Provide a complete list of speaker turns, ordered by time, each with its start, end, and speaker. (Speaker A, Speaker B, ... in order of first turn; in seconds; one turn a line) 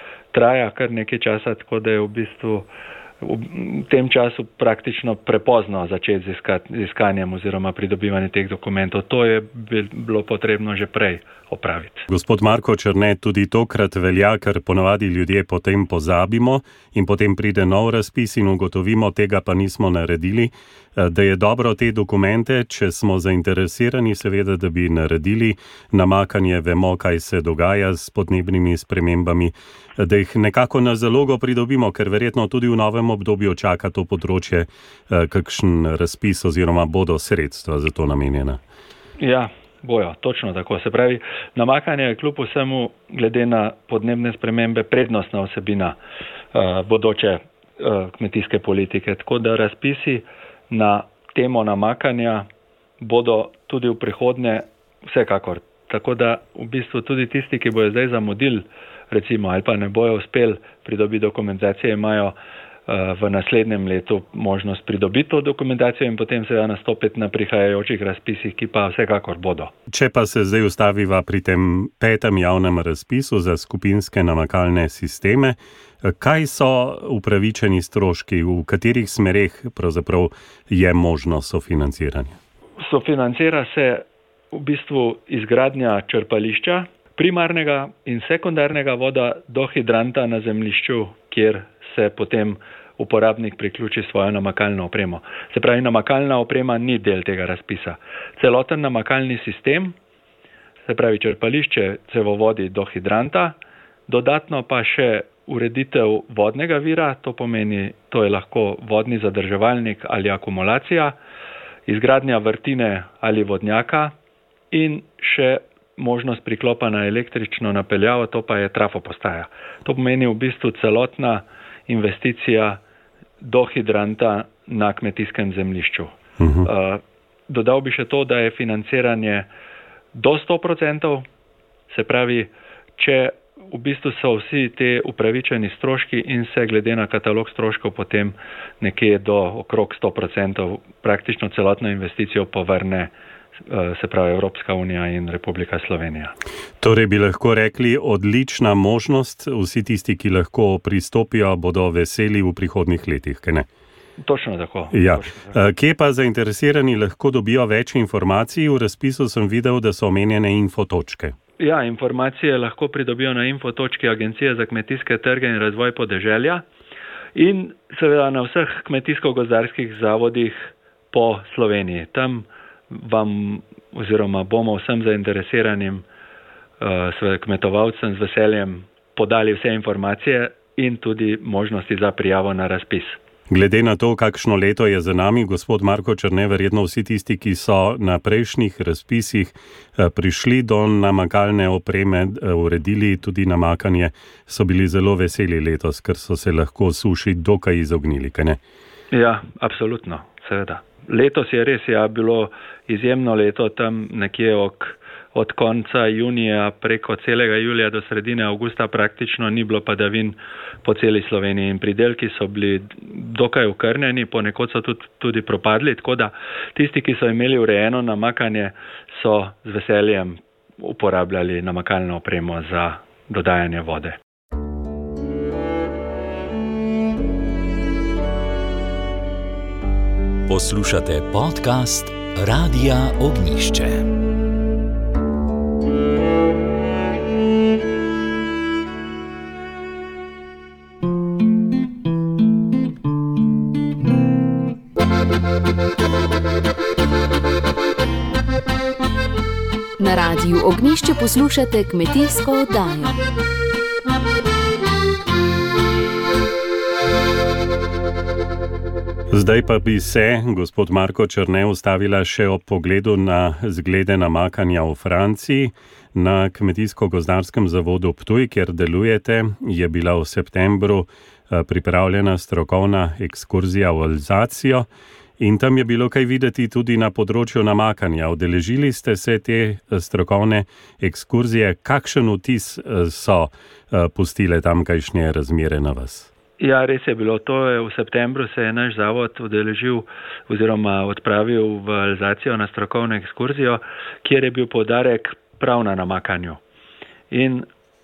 Speaker A: 0.3-2.7
Speaker A: 3.2-12.1
Speaker B: 12.1-38.6
Speaker A: 39.2-46.0
Speaker A: 46.5-52.5
Speaker A: 53.0-62.4
Speaker A: 62.9-69.7
Speaker B: 69.9-82.4
Speaker A: 82.8-99.9
Speaker A: 100.9-103.6
Speaker A: 104.1-111.2
Speaker A: 111.9-114.1
Speaker A: 114.7-122.8
Speaker A: 123.4-129.5
Speaker B: 126.4-126.7
Speaker A: 130.1-131.3
Speaker A: 131.9-143.1
Speaker A: 143.7-146.3
Speaker B: 146.8-153.7
Speaker A: 154.2-155.6
Speaker B: 154.9-161.3
Speaker A: 161.6-166.6
Speaker A: 167.3-176.0
Speaker A: 176.8-183.2
Speaker B: 183.5-198.6
Speaker A: 199.1-224.2
Speaker C: 230.5-234.1
Speaker D: 250.0-253.2
Speaker B: 259.3-274.9
Speaker B: 275.4-286.3
Speaker A: 286.6-296.6
Speaker A: 297.3-297.7